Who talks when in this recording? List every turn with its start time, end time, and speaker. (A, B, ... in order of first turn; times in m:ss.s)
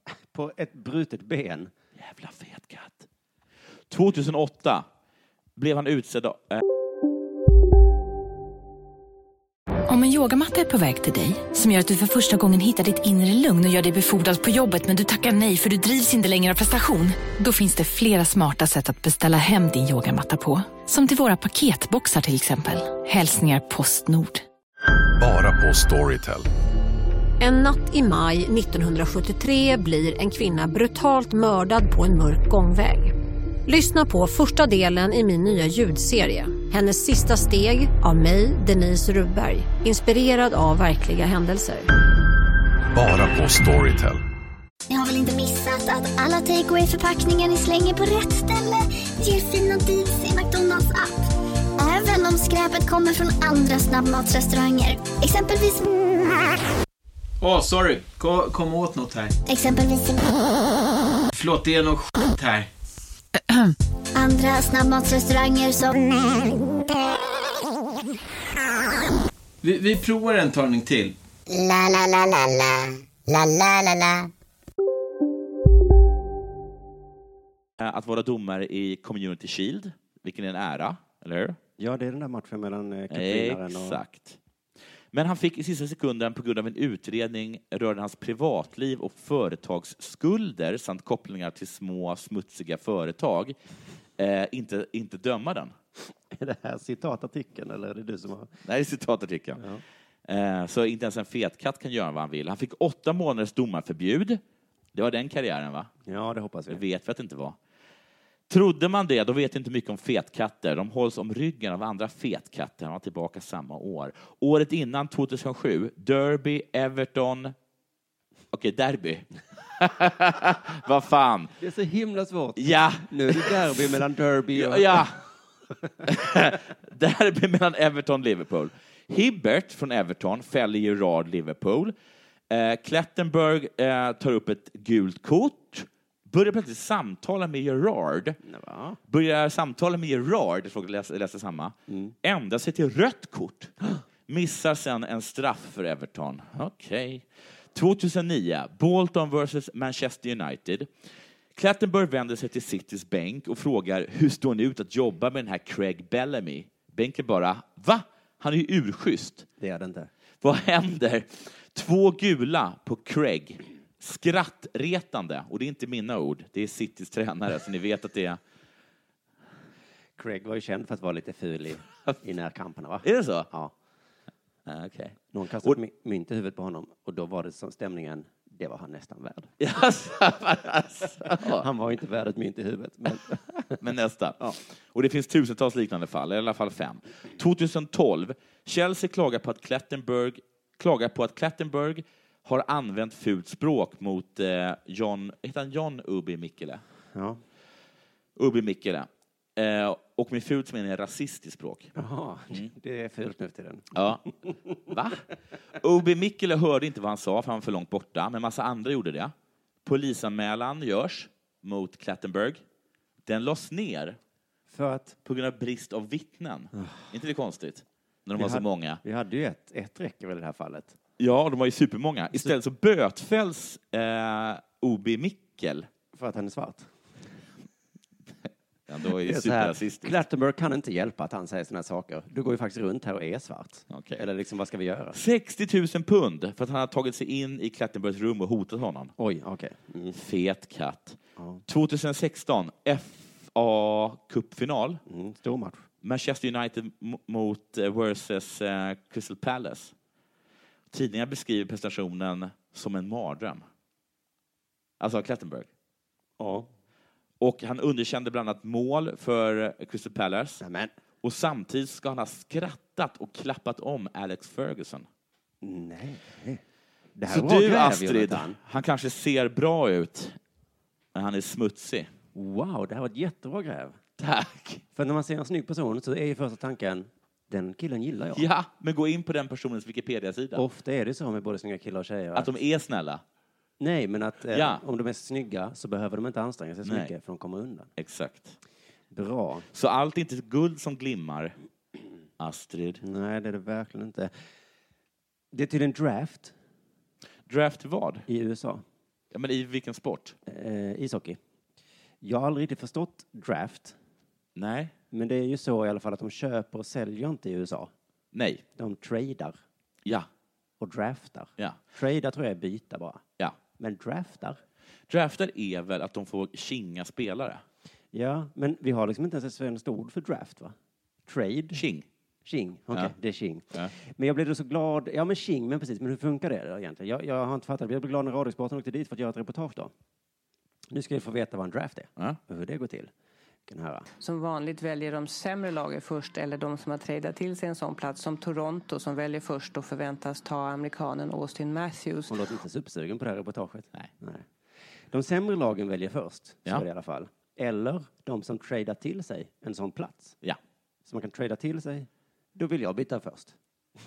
0:00.3-0:01.7 A
0:02.0-0:03.1 B
0:03.9-0:04.9 B
0:05.6-0:06.6 B
0:09.9-0:24.4 C
0:25.2-0:26.5 D
0:27.4-0:33.1 E
0:33.7-0:41.9 E
0:42.9-0:44.2 D
0:44.9-0:51.2 F
0:51.8-0:55.9 F
0:57.4-0:59.4 G
0:59.5-1:00.4 F
1:01.3-1:02.7 G
1:04.2-1:06.5 F
1:09.6-1:11.2 G
1:17.8-1:21.6 B
1:21.8-1:24.0 A
1:23.1-1:24.4 B
1:25.1-1:33.6 B
1:34.2-1:35.7 B
1:36.3-1:38.5 A
1:38.6-1:39.6 B
1:40.3-1:44.4 B
1:44.9-1:45.9 B
1:46.1-1:46.8 A
1:46.7-1:47.6 B
1:48.5-1:57.6 B
1:58.5-2:01.6 B
2:01.6-2:05.1 A
2:02.6-2:03.9 B
2:04.5-2:05.2 B
2:06.0-2:12.0 B
2:12.5-2:18.4 B
2:18.4-2:19.0 A
2:19.1-2:23.7 B
2:21.9-2:22.2 A
2:24.3-2:30.9 B
2:31.6-2:39.5 B
2:39.6-2:40.1 A
2:40.4-2:48.4 B
2:50.2-2:53.7 A
2:53.0-2:53.5 B
2:54.7-2:55.8 B
2:55.3-2:59.5 A
2:59.6-3:01.7 B
3:01.3-3:03.8 A
3:03.8-3:16.8 B
3:17.1-3:17.4 A
3:18.4-3:21.9 B
3:22.0-3:24.8 A
3:23.9-3:24.2 B
3:24.9-3:25.2 B
3:25.8-3:29.3 B
3:29.8-3:32.6 B
3:33.2-3:34.2 B
3:34.7-3:35.2 A
3:35.2-3:39.0 B
3:36.8-3:37.0 A
3:38.4-3:41.0 A
3:41.2-3:45.9 B
3:46.1-3:46.9 A
3:48.9-3:50.2 B
3:49.2-3:55.2 A
3:53.9-3:54.2 B
3:55.1-3:59.1 B
3:59.2-4:00.2 A
4:00.1-4:05.0 B
4:01.4-4:01.6 A
4:05.1-4:05.9 A
4:06.0-4:09.9 B
4:10.9-4:13.6 B
4:15.0-4:15.7 B
4:16.4-4:16.7 A
4:17.4-4:20.6 B
4:20.6-4:20.9 A
4:21.2-4:25.1 B
4:25.6-4:26.6 A
4:27.2-4:28.6 A
4:27.3-4:30.4 B
4:31.1-4:32.1 B
4:32.4-4:34.0 A
4:34.2-4:34.8 B
4:35.0-4:38.5 A
4:38.3-4:40.6 B
4:40.6-4:42.5 A
4:42.4-4:43.2 B
4:43.8-4:47.9 A
4:44.5-4:44.8 B
4:46.8-4:47.1 B
4:48.0-4:48.6 B
4:49.1-4:49.7 A
4:49.7-4:51.6 B
4:52.4-4:53.0 B
4:53.0-4:54.3 A
4:55.5-4:56.5 A
4:57.5-4:58.3 B
4:58.3-4:58.8 A
4:59.3-5:00.4 B
5:00.5-5:01.4 A
5:02.2-5:04.0 A
5:04.6-5:04.9 B
5:05.1-5:07.9 A
5:08.3-5:08.6 B
5:08.8-5:09.6 A
5:10.8-5:13.2 A
5:13.8-5:14.6 A
5:15.1-5:17.6 B
5:18.1-5:20.8 A
5:21.3-5:21.8 A
5:21.7-5:22.1 B
5:22.4-5:29.9 A
5:30.9-5:33.1 A
5:33.7-5:34.1 A
5:34.2-5:42.4 H
5:42.3-5:44.5 A
5:45.1-5:50.4 A
5:51.1-5:53.6 A